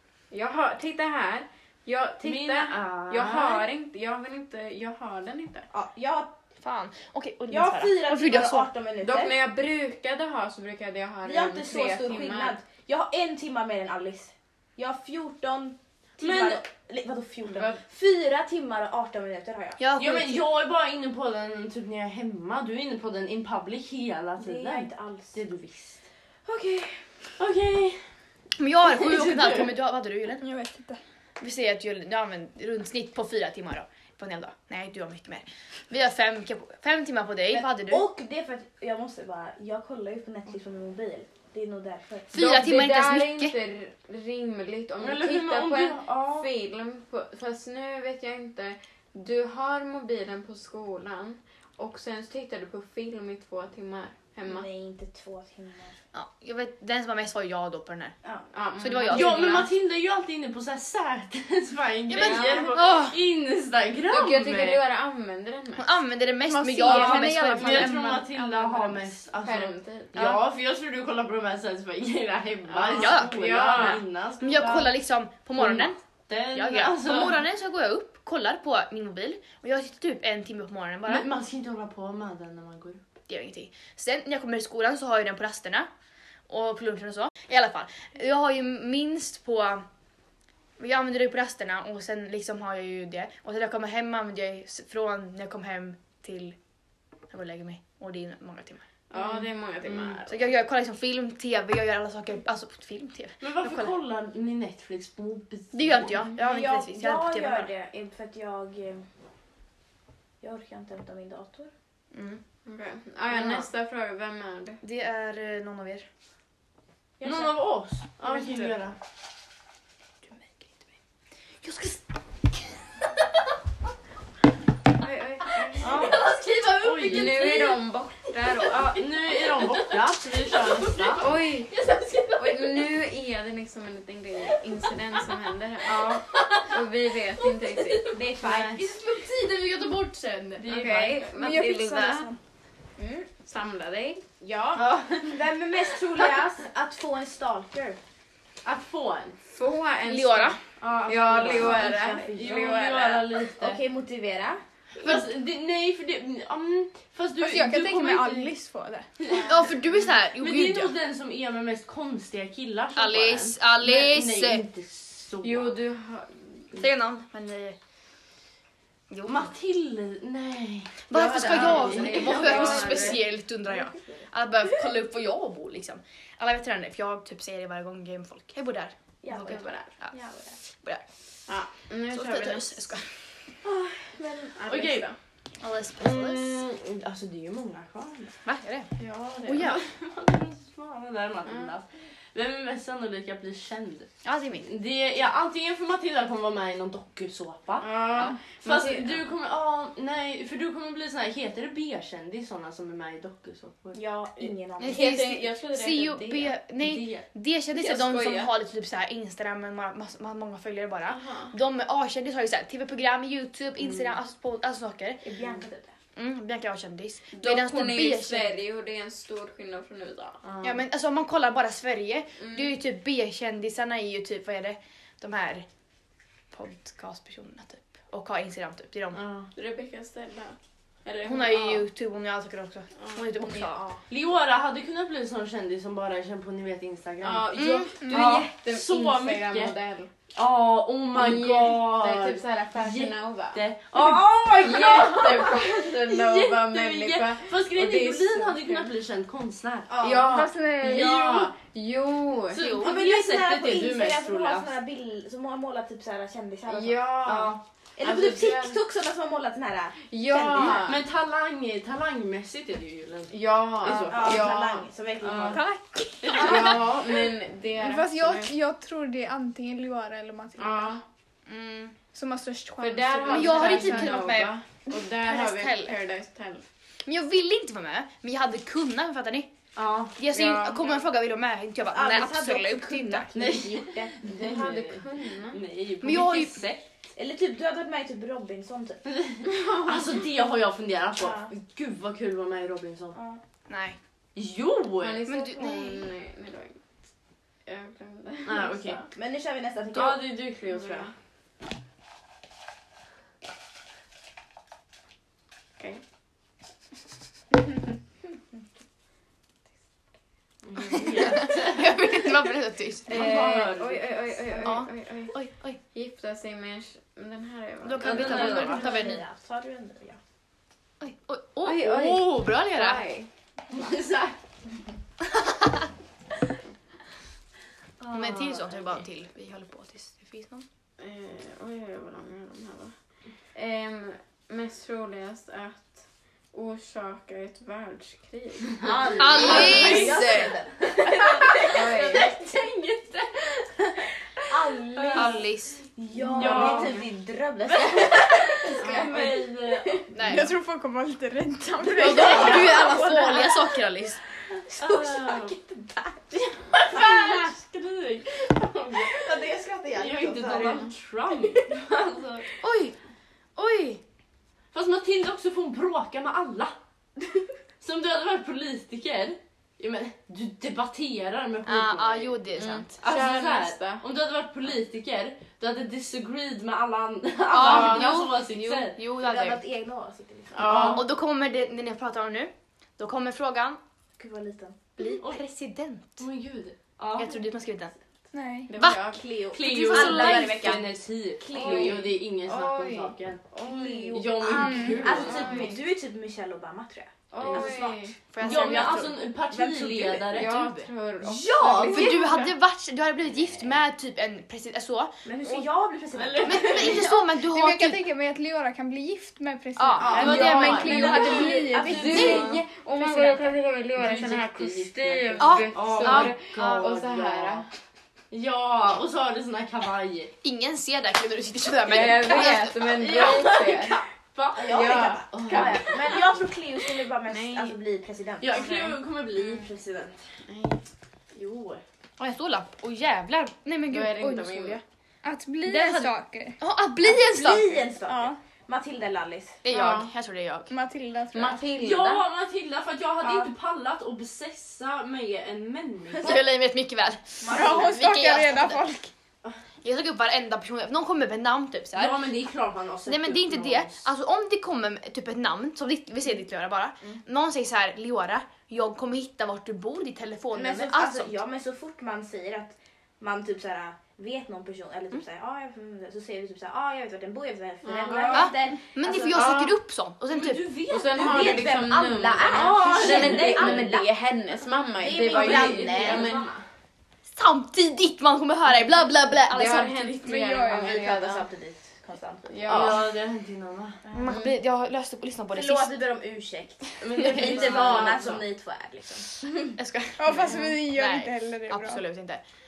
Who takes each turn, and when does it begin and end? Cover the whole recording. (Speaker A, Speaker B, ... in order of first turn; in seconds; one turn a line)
Speaker A: 0.3-5.7
Speaker B: 2.2-3.7
Speaker C: 5.7-6.3
Speaker D: 6.6-8.7
Speaker C: 7.5-9.4
Speaker A: 9.0-12.6
Speaker C: 11.2-19.8
Speaker B: 16.2-16.6
Speaker D: 19.8-20.5
Speaker B: 20.0-26.0
Speaker C: 24.4-25.4
Speaker C: 26.4-27.2
Speaker B: 27.4-28.1
Speaker D: 28.6-30.4
Speaker B: 28.9-29.7
Speaker E: 30.4-31.0
Speaker D: 31.4-38.1
Speaker C: 37.5-42.3
Speaker D: 42.3-43.6
Speaker A: 42.3-54.7
Speaker B: 45.0-46.5
Speaker C: 54.5-56.0
Speaker D: 56.1-58.1
Speaker A: 58.5-59.7
Speaker D: 58.8-59.7
Speaker B: 59.1-64.8
Speaker D: 62.1-63.2
Speaker A: 62.2-62.7
Speaker A: 64.1-65.9
Speaker D: 65.8-68.2
Speaker E: 66.5-69.1
Speaker B: 66.8-75.0
Speaker A: 69.4-70.1
Speaker D: 70.2-70.4
Speaker A: 72.7-74.0
Speaker D: 72.9-76.0
Speaker B: 75.5-77.4
Speaker D: 76.5-81.3
Speaker B: 81.1-83.0
Speaker D: 83.3-85.9
Speaker D: 86.5-89.9
Speaker D: 90.8-96.6
Speaker D: 97.3-98.8
Speaker A: 99.1-100.4
Speaker D: 100.2-104.0
Speaker B: 103.4-106.2
Speaker D: 105.7-107.7
Speaker C: 106.4-109.1
Speaker C: 110.4-111.7
Speaker D: 112.1-112.4
Speaker A: 112.7-114.8
Speaker D: 113.3-113.7
Speaker D: 114.8-116.1
Speaker C: 117.2-117.5
Speaker B: 117.2-119.0
Speaker D: 118.2-118.8
Speaker D: 120.3-120.7
Speaker D: 121.6-122.0
Speaker A: 125.0-126.0
Speaker B: 125.8-126.2
Speaker C: 125.8-126.2
Speaker D: 125.8-127.8
Speaker B: 126.8-127.5
Speaker A: 127.0-129.0
Speaker B: 128.7-131.3
Speaker D: 130.8-132.8
Speaker A: 131.2-131.7
Speaker A: 132.4-138.1
Speaker B: 135.9-136.6
Speaker B: 138.0-138.9
Speaker D: 138.1-141.2
Speaker C: 138.1-138.9
Speaker B: 140.6-141.2
Speaker A: 140.6-142.3
Speaker E: 141.3-142.4
Speaker C: 143.0-143.3
Speaker A: 143.4-144.3
Speaker C: 144.4-148.0
Speaker B: 144.8-145.4
Speaker B: 148.6-149.4
Speaker A: 149.5-153.4
Speaker D: 150.1-150.6
Speaker B: 150.8-153.8
Speaker C: 151.3-152.7
Speaker C: 153.6-154.6
Speaker B: 155.0-158.6
Speaker E: 157.4-159.1
Speaker B: 159.2-159.6
Speaker D: 159.3-160.9
Speaker B: 160.3-165.8
Speaker D: 162.9-164.7
Speaker A: 165.4-166.7
Speaker D: 166.7-167.8
Speaker D: 169.1-169.5
Speaker B: 169.3-173.2
Speaker D: 171.1-180.2
Speaker A: 171.3-173.2
Speaker C: 173.7-174.2
Speaker C: 179.2-180.6
Speaker A: 179.4-179.8
Speaker D: 180.8-181.0
Speaker A: 181.5-182.9
Speaker D: 182.1-183.1
Speaker C: 183.6-184.6
Speaker A: 184.6-185.2
Speaker B: 184.7-185.1
Speaker D: 185.6-186.6
Speaker B: 186.0-188.3
Speaker D: 188.4-188.9
Speaker A: 189.0-189.7
Speaker D: 189.4-189.8
Speaker B: 189.5-194.1
Speaker A: 191.5-191.7
Speaker D: 194.2-194.7
Speaker B: 194.6-204.0
Speaker A: 197.8-199.2
Speaker C: 203.9-205.2
Speaker D: 204.8-215.2
Speaker A: 204.8-206.6
Speaker B: 206.8-207.3
Speaker A: 207.7-208.5
Speaker A: 211.1-211.5
Speaker C: 215.2-215.9
Speaker D: 216.2-218.6
Speaker A: 217.3-220.4
Speaker B: 220.4-220.8
Speaker D: 220.6-225.7
Speaker A: 222.4-222.7
Speaker D: 226.5-229.2
Speaker B: 229.1-229.5
Speaker A: 229.6-231.8
Speaker D: 231.2-233.9
Speaker A: 233.0-233.7
Speaker B: 234.1-239.8
Speaker A: 237.2-240.1
Speaker D: 237.5-238.3
Speaker E: 238.0-238.4
Speaker B: 240.3-251.5
Speaker A: 241.1-243.6
Speaker C: 244.0-244.4
Speaker A: 244.6-248.9
Speaker C: 249.9-250.4
Speaker A: 250.0-252.6
Speaker E: 250.3-251.1
Speaker B: 252.5-254.7
Speaker D: 252.6-252.9
Speaker C: 252.8-257.3
Speaker A: 256.7-258.8
Speaker B: 257.2-257.6
Speaker C: 258.0-260.9
Speaker A: 260.1-261.0
Speaker B: 260.8-264.6
Speaker A: 263.3-264.9
Speaker C: 264.1-265.6
Speaker B: 265.2-265.6
Speaker E: 265.5-266.8
Speaker B: 266.2-267.0
Speaker A: 266.3-268.5
Speaker E: 267.8-271.0
Speaker A: 270.6-271.0
Speaker D: 271.5-272.0
Speaker E: 272.1-274.2
Speaker A: 272.8-276.7
Speaker D: 273.3-276.0
Speaker D: 277.1-279.5
Speaker B: 279.8-280.1
Speaker D: 280.1-283.3
Speaker A: 280.3-280.9
Speaker C: 281.9-284.2
Speaker B: 283.3-286.9
Speaker A: 284.3-285.6
Speaker D: 286.0-286.6
Speaker C: 287.2-289.0
Speaker B: 289.1-293.2
Speaker A: 289.5-290.2
Speaker C: 291.2-291.5
Speaker C: 293.1-293.4
Speaker D: 293.7-294.0
Speaker B: 294.4-295.2
Speaker A: 295.0-296.8
Speaker D: 295.3-296.1
Speaker A: 297.7-299.1
Speaker B: 298.4-299.0
Speaker C: 299.1-300.3
Speaker B: 299.9-301.1
Speaker A: 300.7-301.1
Speaker B: 310.6-312.0
Speaker D: 310.9-313.3
Speaker A: 313.1-315.4
Speaker B: 313.1-314.2
Speaker D: 314.6-315.8
Speaker A: 315.9-318.8
Speaker D: 317.8-319.2
Speaker B: 318.0-318.9
Speaker C: 318.2-320.2
Speaker D: 321.0-323.1
Speaker A: 321.6-323.3
Speaker B: 323.7-324.4
Speaker D: 325.3-325.8
Speaker C: 328.0-328.7
Speaker D: 328.1-330.7
Speaker A: 331.0-332.9
Speaker A: 333.6-336.0
Speaker A: 336.5-340.2
Speaker C: 338.8-342.0
Speaker B: 338.8-340.3
Speaker D: 339.2-340.6
Speaker B: 340.9-343.9
Speaker A: 341.5-342.4
Speaker C: 344.5-345.4
Speaker B: 345.0-345.4
Speaker D: 345.1-345.8
Speaker C: 346.0-350.0
Speaker B: 346.2-347.0
Speaker A: 346.4-347.0
Speaker B: 347.7-350.1
Speaker A: 348.8-349.1
Speaker D: 350.1-350.6
Speaker E: 350.2-352.6
Speaker D: 351.9-354.2
Speaker C: 352.0-353.7
Speaker B: 352.2-352.8
Speaker C: 354.7-356.4
Speaker B: 354.7-355.6
Speaker B: 356.4-359.3
Speaker C: 356.9-357.5
Speaker C: 359.0-361.7
Speaker B: 359.9-362.5
Speaker D: 362.6-363.0
Speaker D: 363.6-364.0
Speaker B: 364.7-366.8
Speaker B: 367.8-372.4
Speaker D: 371.7-372.9
Speaker A: 372.6-374.0
Speaker B: 373.0-379.0
Speaker D: 377.5-379.6
Speaker A: 377.6-378.1
Speaker C: 379.2-380.9
Speaker A: 380.6-381.0
Speaker B: 380.6-381.0
Speaker D: 380.9-383.8
Speaker C: 384.2-384.8
Speaker D: 385.0-386.2
Speaker B: 386.2-387.4
Speaker D: 387.1-387.9
Speaker E: 388.3-388.7
Speaker A: 388.7-389.3
Speaker D: 388.8-390.9
Speaker C: 389.1-392.1
Speaker B: 389.5-395.7
Speaker A: 391.5-393.1
Speaker C: 393.6-400.5
Speaker E: 394.6-395.0
Speaker D: 394.9-395.2
Speaker A: 395.1-395.8
Speaker A: 397.3-398.1
Speaker B: 397.4-397.8
Speaker D: 398.3-399.2
Speaker B: 398.4-400.9
Speaker A: 400.3-402.5
Speaker D: 401.3-405.2
Speaker C: 405.2-407.1
Speaker B: 406.1-407.1
Speaker D: 406.4-408.0
Speaker E: 407.3-412.1
Speaker D: 409.8-412.6
Speaker C: 410.0-412.6
Speaker B: 410.1-412.5
Speaker A: 410.1-417.7
Speaker B: 414.0-417.7
Speaker D: 415.4-416.9
Speaker B: 418.3-420.3
Speaker D: 420.4-423.0
Speaker A: 421.9-424.0
Speaker B: 422.9-426.3
Speaker C: 424.6-428.8
Speaker A: 424.7-425.8
Speaker A: 427.3-427.8
Speaker B: 428.4-429.7
Speaker A: 428.5-428.9
Speaker C: 429.5-430.2
Speaker A: 430.5-430.8
Speaker B: 431.3-431.8
Speaker D: 432.2-434.8
Speaker A: 433.9-434.8
Speaker E: 435.2-436.6
Speaker D: 435.6-437.8
Speaker C: 437.0-439.6
Speaker E: 438.1-438.4
Speaker D: 439.6-440.7
Speaker A: 439.7-440.1
Speaker E: 440.7-441.6
Speaker A: 441.3-442.2
Speaker B: 441.8-446.4
Speaker C: 443.2-443.5
Speaker D: 446.2-448.9
Speaker C: 447.4-448.0
Speaker E: 447.5-449.1
Speaker D: 449.8-452.2
Speaker B: 451.9-454.1
Speaker D: 453.1-461.4
Speaker C: 460.5-469.4
Speaker A: 467.8-468.5
Speaker B: 468.1-468.4
Speaker D: 468.3-470.7
Speaker A: 469.3-469.8
Speaker B: 470.3-471.8
Speaker A: 470.9-476.4
Speaker C: 471.1-474.1
Speaker B: 472.5-473.9
Speaker C: 475.0-476.5
Speaker B: 475.2-476.6
Speaker D: 475.4-476.2
Speaker D: 477.3-480.2
Speaker A: 479.5-481.5
Speaker E: 480.2-481.1
Speaker C: 480.7-483.0
Speaker A: 482.5-483.1
Speaker B: 482.7-484.0
Speaker C: 484.1-484.3
Speaker D: 484.1-485.9
Speaker C: 485.5-489.4
Speaker B: 487.0-488.4
Speaker D: 487.4-488.0
Speaker D: 489.8-492.4
Speaker E: 490.2-492.0